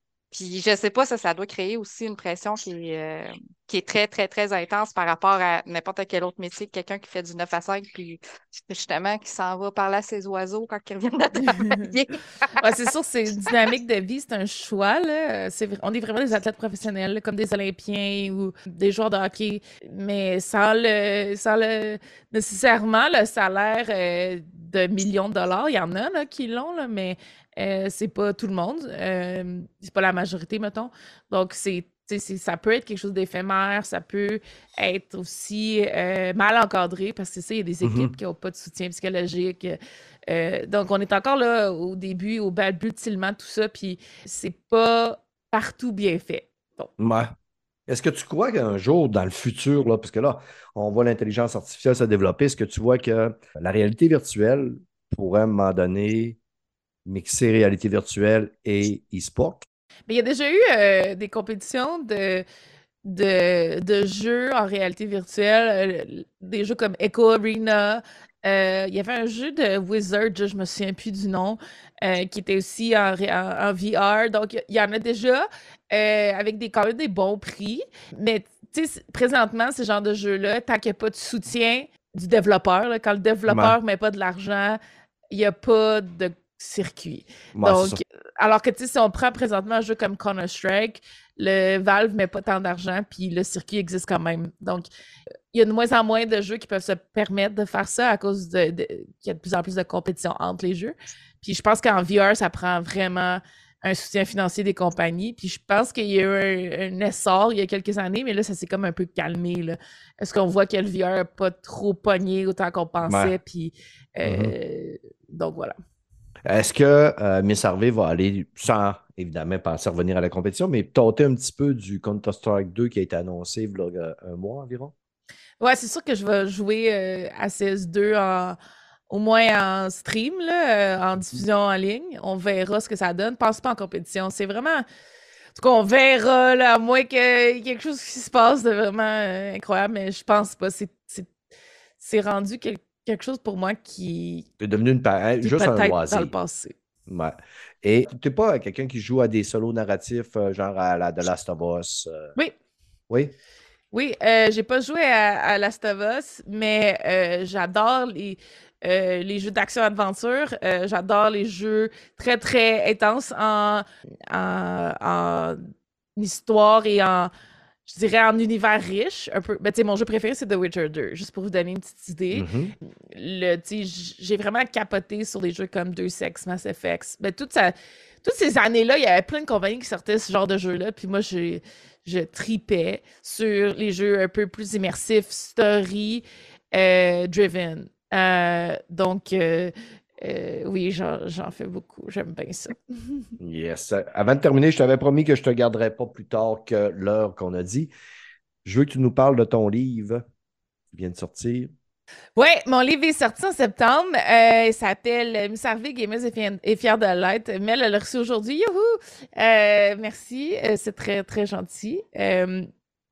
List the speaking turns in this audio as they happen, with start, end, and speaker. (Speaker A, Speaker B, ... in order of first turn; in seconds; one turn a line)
Speaker A: 0.3-12.7
Speaker B: 11.4-11.9
Speaker B: 12.6-46.9
Speaker C: 37.8-38.1
Speaker C: 47.0-47.3
Speaker C: 47.9-56.4
Speaker C: 57.0-59.7
Speaker B: 60.1-62.5
Speaker B: 63.0-84.8
Speaker C: 83.5-83.8
Speaker B: 85.3-94.9
Speaker C: 87.5-88.0
Speaker B: 95.5-115.8
Speaker C: 113.0-113.4
Speaker C: 114.2-114.5
Speaker C: 116.5-124.9
Speaker B: 125.6-128.6
Speaker B: 129.1-134.8
Speaker B: 135.6-141.3
Speaker B: 142.0-144.5
Speaker C: 144.6-146.3
Speaker B: 145.4-146.7
Speaker C: 147.1-152.3
Speaker C: 153.1-153.3
Speaker B: 153.9-167.3
Speaker B: 167.9-193.3
Speaker C: 172.3-172.8
Speaker C: 193.4-197.9
Speaker C: 198.7-200.2
Speaker C: 200.9-201.7
Speaker B: 202.4-212.7